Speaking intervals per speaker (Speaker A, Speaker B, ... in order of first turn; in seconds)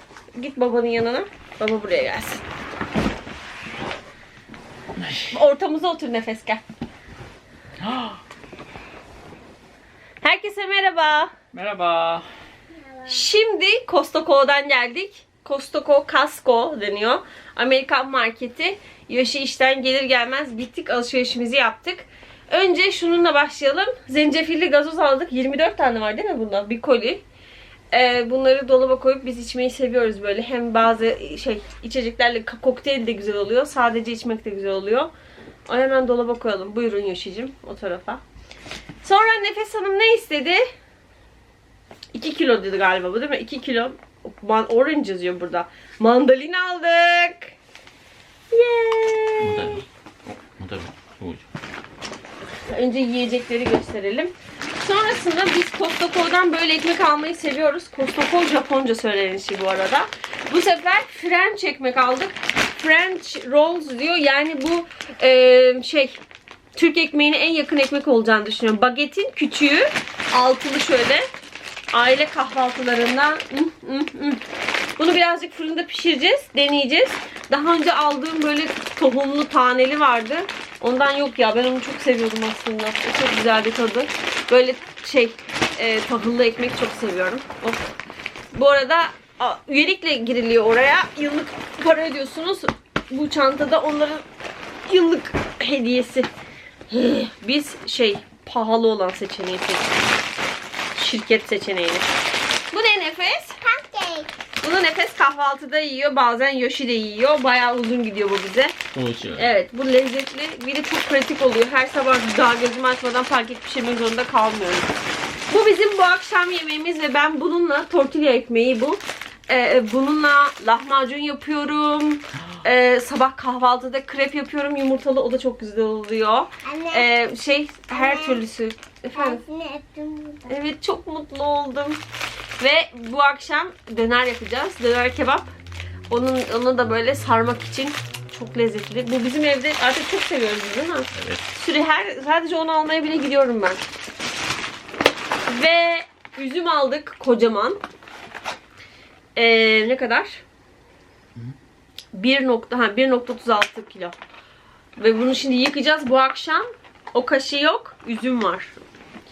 Speaker A: 0.3-2.4, 5.3-6.6, 10.2-11.3, 13.1-27.2, 27.9-35.1, 35.7-38.2, 39.0-40.6, 42.1-47.5, 48.5-49.8, 52.6-66.2, 66.8-71.3, 71.9-74.4, 75.0-87.9, 88.5-94.2, 94.9-96.3, 96.9-100.1, 101.0-102.1, 102.7-103.6, 104.6-108.8, 109.3-114.9, 115.5-129.4, 130.5-132.0, 132.6-135.5, 136.1-143.8, 145.5-147.8, 149.3-150.4, 152.1-154.2, 155.0-158.8
Speaker B: 5.0-5.3, 7.8-8.2, 11.5-12.3, 49.4-51.5, 108.9-109.5, 141.1-141.5
Speaker C: 103.6-104.3, 126.7-127.1, 127.9-128.4, 129.1-130.5